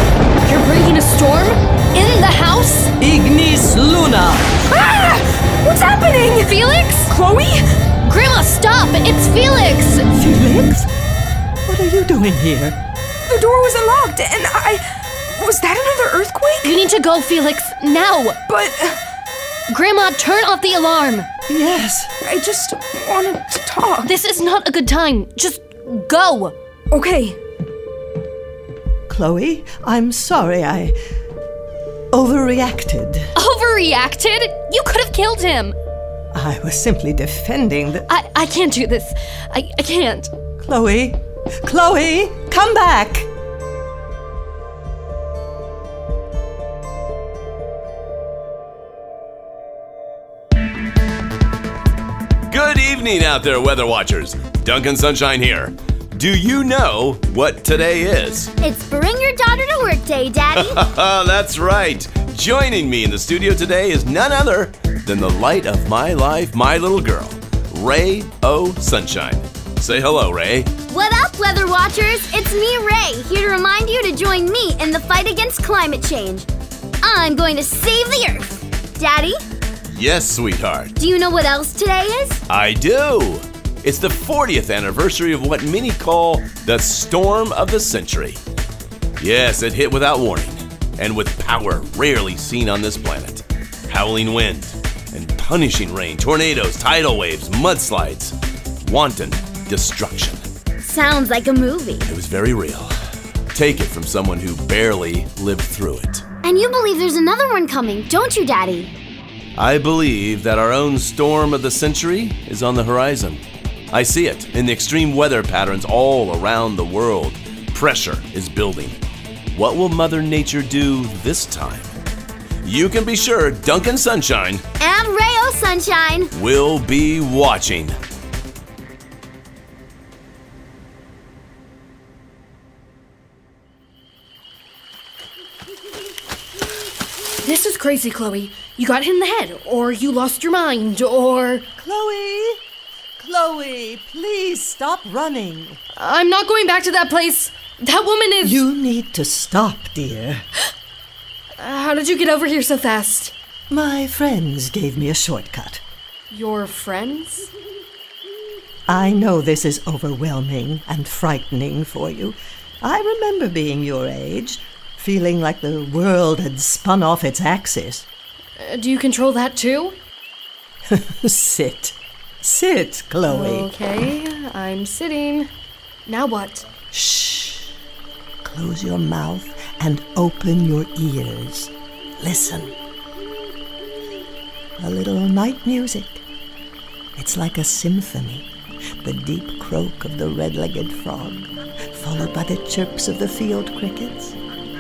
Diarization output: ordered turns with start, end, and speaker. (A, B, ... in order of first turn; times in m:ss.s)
0:00.4-0:02.9 A
0:03.0-0:04.6 B
0:04.7-0:07.6 C
0:06.4-0:07.1 A
0:08.0-0:10.1 A
0:10.1-0:10.9 B
0:11.6-0:12.8 B
0:13.3-0:16.8 C
0:16.6-0:18.4 A
0:18.5-0:19.0 C
0:19.7-0:21.3 A
0:21.5-0:22.1 B
0:22.2-0:24.1 C
0:24.0-0:26.6 A
0:26.9-0:27.4 C
0:29.1-0:31.0 B
0:32.1-0:33.3 B
0:33.4-0:35.8 A
0:36.3-0:38.1 B
0:38.1-0:40.3 A
0:40.6-0:43.3 B
0:52.5-0:58.5 D
0:58.6-1:00.8 E
1:00.5-1:10.7 D
1:10.9-1:16.5 E
1:17.0-1:19.4 E
1:19.9-1:20.9 D
1:21.0-1:22.4 E
1:22.5-1:28.4 D
1:29.2-1:40.4 D
1:40.8-1:42.1 E
1:42.1-1:43.0 D
1:43.5-1:46.3 D
1:46.4-1:48.9 E
1:49.6-1:59.0 D
1:59.5-2:02.0 D
2:02.6-2:04.6 D
2:04.8-2:06.3 E
2:06.4-2:08.0 D
2:17.4-2:21.7 A
2:21.8-2:22.6 B
2:23.2-2:25.8 B
2:26.0-2:28.6 A
2:28.4-2:30.5 B
2:31.6-2:33.3 A
2:33.7-2:35.8 B
2:36.3-2:37.5 A
2:38.9-2:48.1 B
2:48.6-2:50.0 A
2:50.9-2:53.7 B
2:53.3-2:55.5 A
2:56.1-2:56.7 A
2:56.9-2:57.7 B
2:58.4-3:02.8 B
3:04.8-3:06.2 B
3:07.2-3:08.5 B
3:09.0-3:14.4 B